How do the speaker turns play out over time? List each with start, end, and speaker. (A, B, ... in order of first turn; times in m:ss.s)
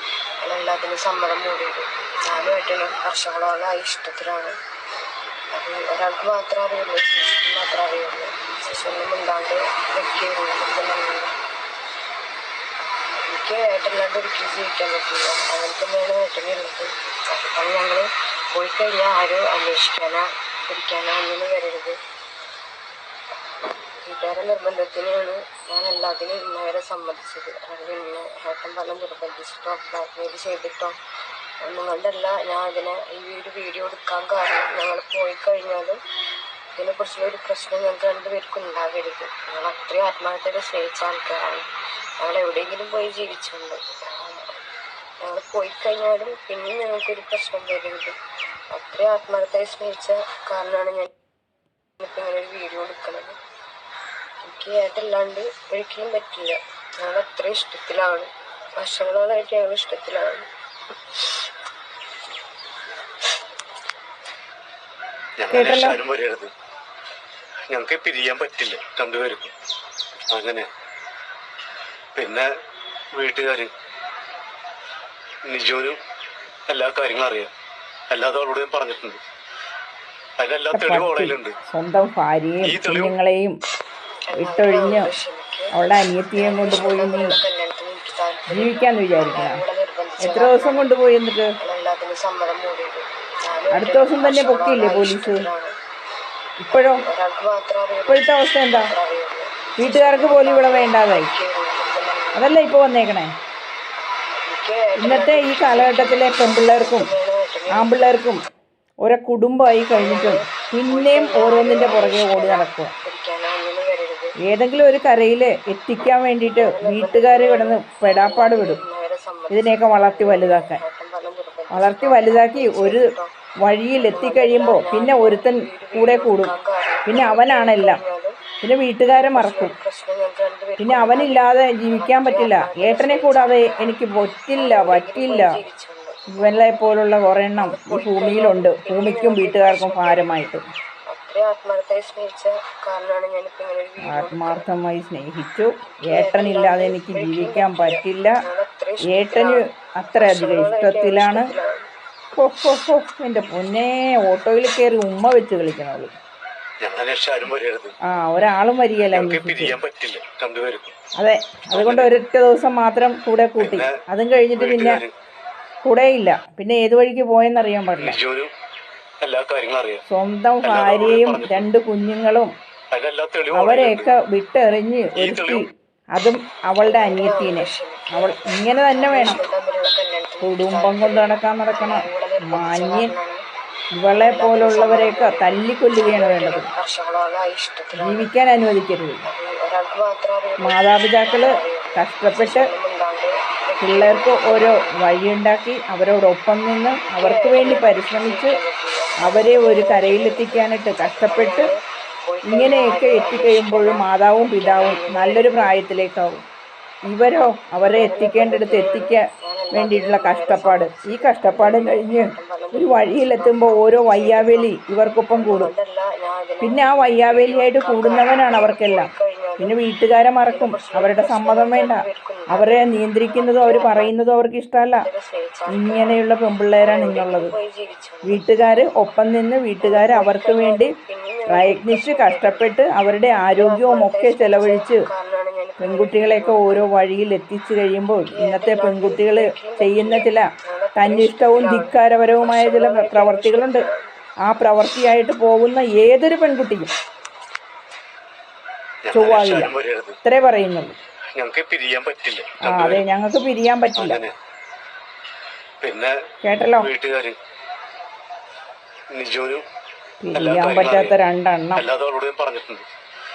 0:00.4-0:04.6 A
0:05.5-0:11.3 A
0:13.2-0:22.0 A
0:24.0-0:31.0 A
0:31.6-0:36.0 A
0:36.8-0:41.7 A
0:42.2-0:44.5 A
0:45.2-0:48.2 A
0:48.7-0:51.1 A
0:52.0-0:53.4 A
0:54.4-1:00.5 A
1:05.4-1:06.5 B
1:05.5-1:06.0 C
1:07.7-1:09.5 B
1:10.3-1:10.7 B
1:12.2-1:12.5 B
1:13.1-1:13.7 B
1:15.5-1:16.0 B
1:16.7-1:17.5 B
1:18.1-1:19.2 B
1:20.4-1:21.5 B
1:20.7-1:23.6 C
1:22.6-1:23.2 B
1:24.3-1:25.7 A
1:24.4-1:25.1 C
1:25.7-1:27.4 C
1:26.4-1:30.9 A
1:28.5-1:29.6 C
1:30.2-1:31.5 C
1:31.6-1:35.8 A
1:33.7-1:35.5 C
1:36.6-1:37.0 C
1:36.8-1:42.5 A
1:38.1-1:38.9 C
1:39.8-1:41.3 C
1:42.4-1:43.3 C
1:44.4-1:48.2 A
1:45.0-1:47.1 C
1:47.7-1:48.4 C
1:49.0-1:52.9 C
1:50.0-1:54.3 A
1:54.4-1:58.8 C
1:56.4-2:03.3 A
1:59.5-2:00.8 C
2:01.7-2:03.1 C
2:03.6-2:06.5 C
2:03.9-2:08.4 A
2:07.1-2:08.0 C
2:08.6-2:09.7 C
2:09.1-2:14.0 A
2:10.8-2:15.5 C
2:14.6-2:16.5 A
2:16.3-2:20.6 C
2:17.6-2:20.5 A
2:21.1-2:24.7 A
2:24.0-2:28.4 C
2:25.9-2:29.6 A
2:29.1-2:31.5 C
2:30.2-2:31.8 A
2:32.4-2:36.1 C
2:36.8-2:37.9 B
2:38.1-2:39.8 C
2:39.1-2:40.9 B
2:41.2-2:45.0 C
2:41.7-2:42.1 B
2:43.6-2:44.0 B
2:44.6-2:45.1 B
2:45.8-2:48.2 C
2:48.0-2:48.5 B
2:49.2-2:50.0 B
2:50.1-2:52.5 C
2:50.6-2:51.7 B
2:52.9-2:54.1 B
2:53.6-2:59.4 C
2:55.2-2:55.6 B
2:56.8-3:03.4 A
3:00.4-3:03.1 C
3:04.0-3:06.7 C
3:04.2-3:08.3 A
3:08.0-3:09.2 C
3:09.2-3:15.0 A
3:10.6-3:12.7 C
3:13.8-3:18.6 C
3:17.1-3:25.7 A
3:19.2-3:21.7 C
3:22.5-3:26.4 C
3:27.1-3:35.7 C
3:27.9-3:34.7 A
3:35.4-3:39.8 A
3:36.6-3:42.0 C
3:40.5-3:44.1 A
3:42.5-3:45.0 C
3:45.0-3:46.2 A
3:45.7-3:47.5 C
3:46.8-3:48.4 A
3:48.3-3:50.9 C
3:49.8-3:52.7 A
3:51.5-3:55.1 C
3:53.6-3:56.9 A
3:55.8-4:03.8 C
3:58.3-4:04.1 A
4:04.5-4:06.9 C
4:09.0-4:10.2 B
4:09.1-4:09.7 C
4:10.2-4:11.0 C
4:11.4-4:13.0 B
4:12.6-4:14.2 C
4:14.0-4:14.4 B
4:15.8-4:16.1 B
4:16.4-4:16.9 C
4:16.8-4:17.4 B
4:19.1-4:19.6 B
4:20.2-4:21.9 C
4:20.4-4:21.2 B
4:21.8-4:22.8 B